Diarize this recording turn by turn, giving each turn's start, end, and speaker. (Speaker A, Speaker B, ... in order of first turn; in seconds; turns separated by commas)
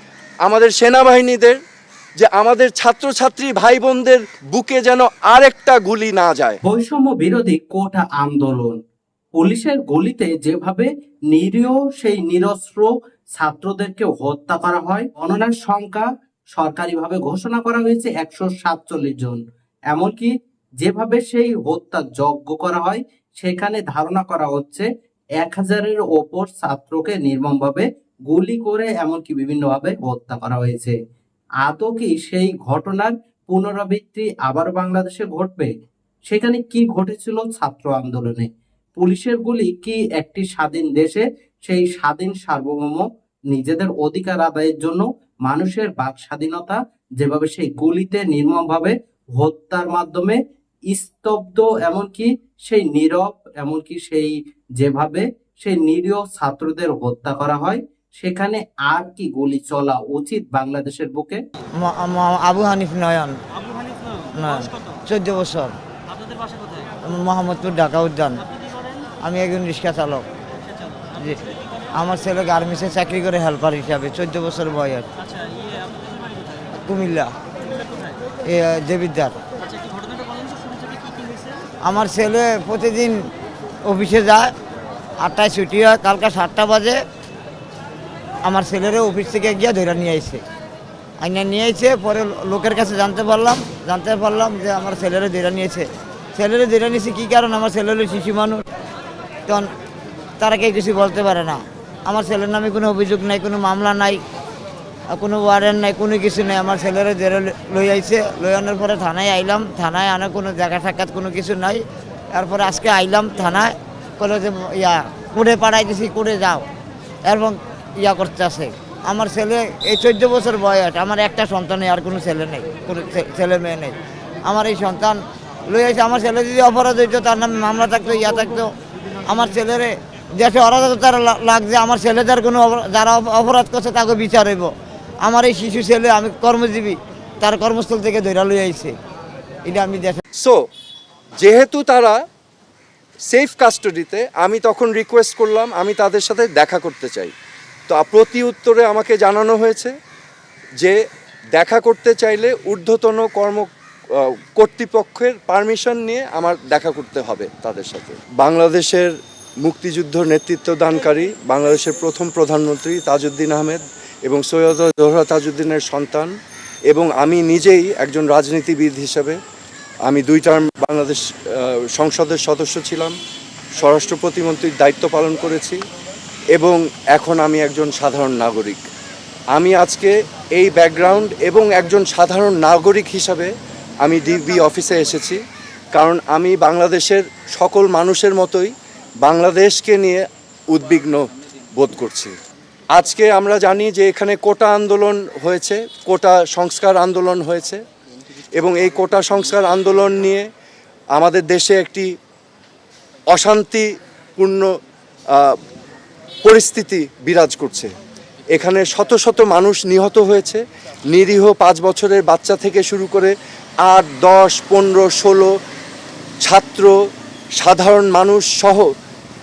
Speaker A: 0.4-1.6, Speaker A: 2.2-6.6, Speaker B: 6.6-8.8, Speaker B: 9.3-24.9, Speaker B: 25.4-31.0, Speaker B: 31.6-35.7, Speaker B: 36.3-50.4, Speaker B: 50.9-61.4, Speaker C: 61.8-63.4, Speaker C: 64.3-65.7, Speaker D: 66.2-66.8, Speaker C: 67.0-68.4, Speaker C: 69.2-70.3, Speaker C: 71.1-75.1, Speaker D: 75.4-76.6, Speaker C: 76.7-77.3, Speaker C: 78.4-79.4, Speaker D: 79.7-81.6, Speaker C: 81.8-83.3, Speaker C: 83.8-84.5, Speaker C: 85.2-87.0, Speaker C: 88.4-90.4, Speaker C: 91.2-98.6, Speaker C: 100.4-104.2, Speaker C: 105.1-111.8, Speaker C: 112.3-116.7, Speaker C: 117.2-128.7, Speaker C: 129.2-134.7, Speaker C: 135.2-138.9, Speaker C: 139.7-140.2, Speaker A: 140.4-140.7, Speaker A: 141.4-142.2, Speaker A: 143.3-147.3, Speaker A: 147.9-149.9, Speaker A: 151.5-166.3, Speaker A: 166.9-169.4, Speaker A: 170.0-173.2, Speaker A: 173.7-175.8, Speaker A: 176.5-178.8, Speaker A: 179.5-183.5, Speaker A: 184.0-185.4, Speaker A: 185.9-192.3, Speaker A: 192.9-197.8, Speaker A: 198.6-200.5, Speaker A: 201.1-202.1, Speaker A: 203.3-204.7, Speaker A: 205.3-205.6, Speaker A: 206.4-207.9, Speaker A: 208.5-215.5, Speaker A: 216.4-216.9, Speaker A: 217.6-218.9